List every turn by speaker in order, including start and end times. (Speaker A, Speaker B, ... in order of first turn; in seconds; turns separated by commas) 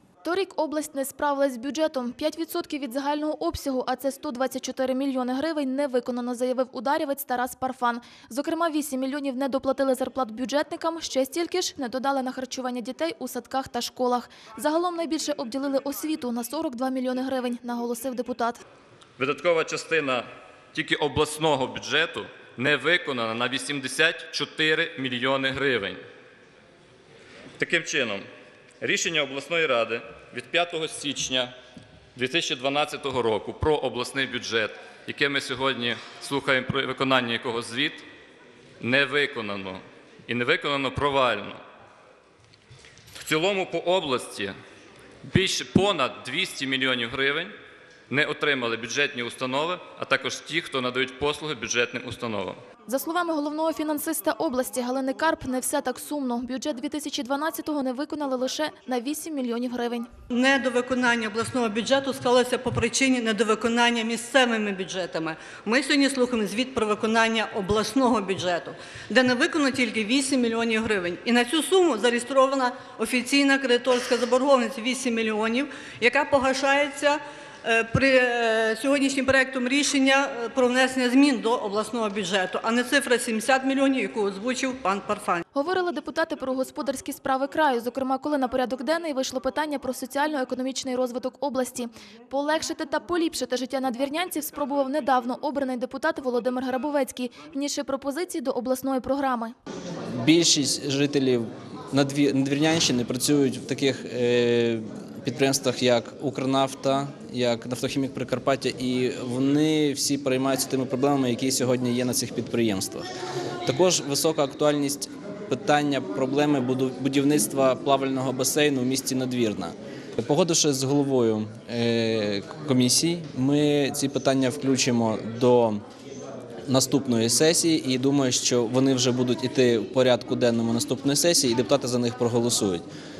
Speaker A: 0.2-18.6, Speaker B: 19.2-26.0, Speaker B: 27.6-28.2, Speaker B: 28.8-31.5, Speaker B: 32.1-38.0, Speaker B: 38.8-41.6, Speaker B: 43.2-44.5, Speaker B: 45.2-47.5, Speaker B: 48.1-52.6, Speaker A: 52.9-60.1, Speaker C: 60.3-85.4, Speaker A: 85.5-99.5, Speaker D: 100.2-113.1, Speaker D: 113.7-125.8, Speaker D: 126.7-132.8